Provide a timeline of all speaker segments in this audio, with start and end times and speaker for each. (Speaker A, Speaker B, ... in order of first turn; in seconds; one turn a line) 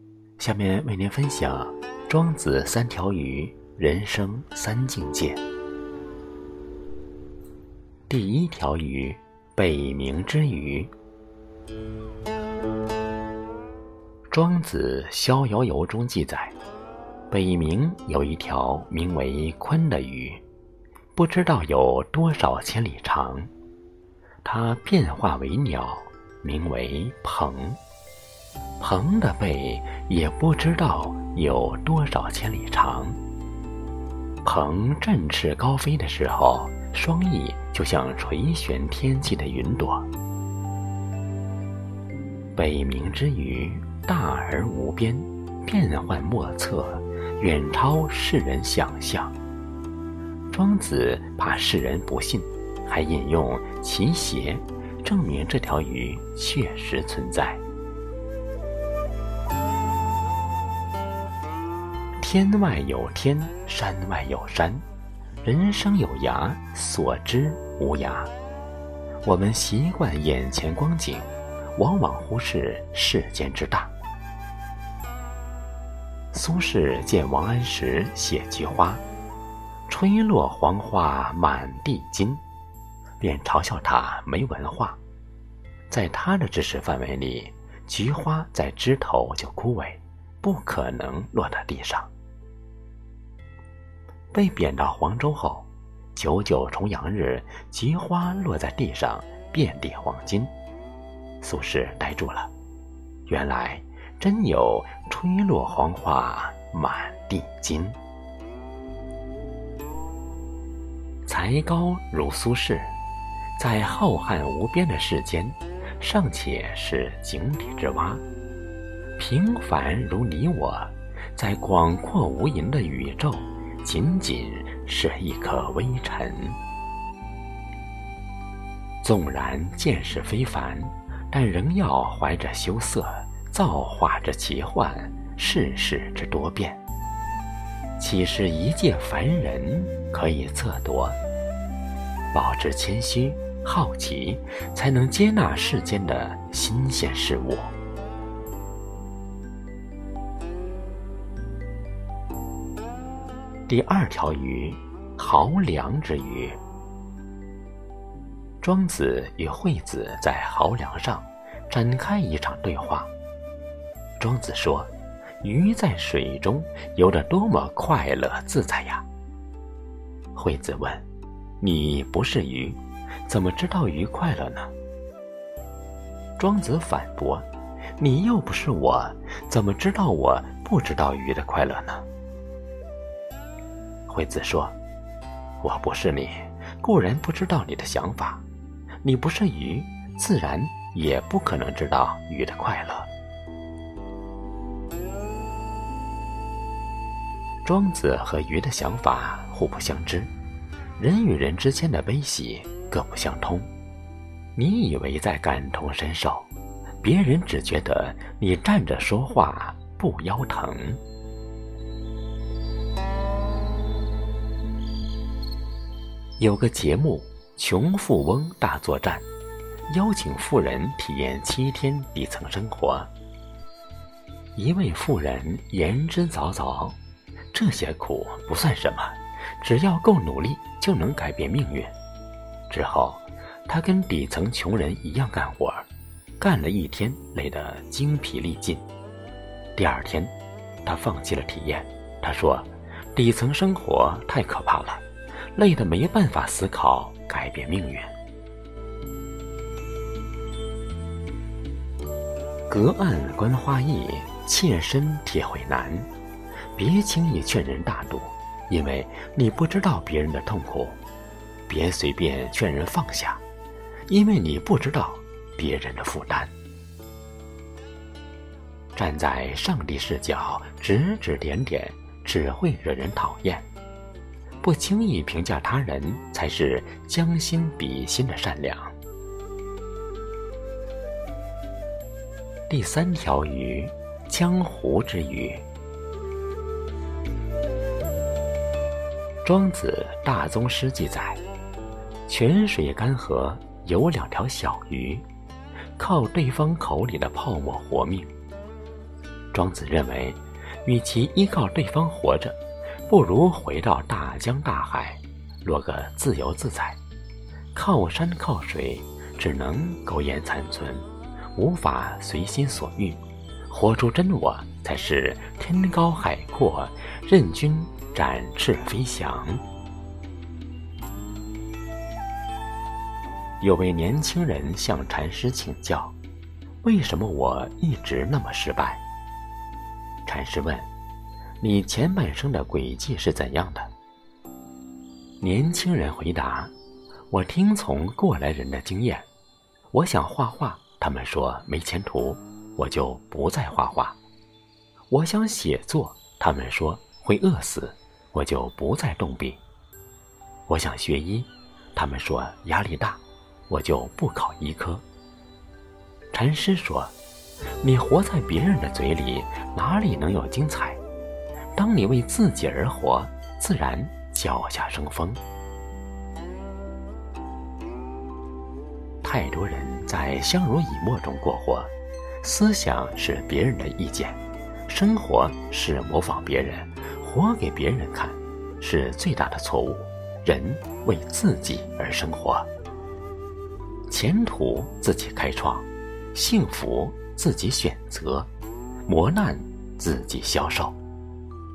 Speaker A: 0.4-5.4
Speaker A: 8.1-10.9
Speaker A: 14.3-16.5
Speaker A: 17.3-20.4
Speaker A: 21.1-23.5
Speaker A: 24.4-27.8
Speaker A: 28.8-33.2
Speaker A: 34.4-40.1
Speaker A: 42.5-49.3
Speaker A: 50.5-57.6
Speaker A: 62.2-64.8
Speaker A: 65.4-68.3
Speaker A: 69.2-73.9
Speaker A: 76.3-79.0
Speaker A: 79.9-82.4
Speaker A: 83.2-85.0
Speaker A: 85.9-92.1
Speaker A: 94.3-100.5
Speaker A: 101.4-102.5
Speaker A: 103.3-108.0
Speaker A: 111.2-112.9
Speaker A: 113.6-118.2
Speaker A: 119.2-126.6
Speaker A: 129.0-136.8
Speaker A: 138.0-141.2
Speaker A: 142.3-147.7
Speaker A: 153.7-156.6
Speaker A: 158.6-163.1
Speaker A: 164.2-164.9
Speaker A: 165.4-169.0
Speaker A: 170.3-171.0
Speaker A: 171.6-174.7
Speaker A: 176.4-177.5
Speaker A: 178.0-182.0
Speaker A: 184.1-184.8
Speaker A: 185.6-188.4
Speaker A: 189.0-193.1
Speaker A: 197.6-200.3
Speaker A: 201.0-203.7
Speaker A: 204.6-206.5
Speaker A: 207.0-211.0
Speaker A: 216.4-219.2
Speaker A: 219.9-223.1
Speaker A: 224.6-226.9
Speaker A: 227.5-231.9
Speaker A: 232.7-235.8
Speaker A: 236.4-238.8
Speaker A: 239.8-240.3
Speaker A: 240.8-245.0
Speaker A: 245.5-248.1
Speaker A: 252.7-256.1
Speaker A: 256.8-261.0
Speaker A: 261.7-263.4
Speaker A: 264.1-266.5
Speaker A: 268.9-273.6
Speaker A: 274.6-278.9
Speaker A: 282.7-285.6
Speaker A: 289.4-291.4
Speaker A: 292.3-295.2
Speaker A: 296.0-298.3
Speaker A: 299.5-307.0
Speaker A: 307.7-319.6
Speaker A: 323.6-326.1
Speaker A: 326.8-329.0
Speaker A: 330.2-330.9
Speaker A: 331.6-333.9
Speaker A: 335.4-336.7
Speaker A: 337.3-339.2
Speaker A: 339.9-344.2
Speaker A: 345.1-349.6
Speaker A: 350.7-355.0
Speaker A: 356.3-357.1
Speaker A: 357.8-361.0
Speaker A: 361.7-365.4
Speaker A: 369.2-371.9
Speaker A: 372.4-382.7
Speaker A: 384.1-388.5
Speaker A: 389.1-390.9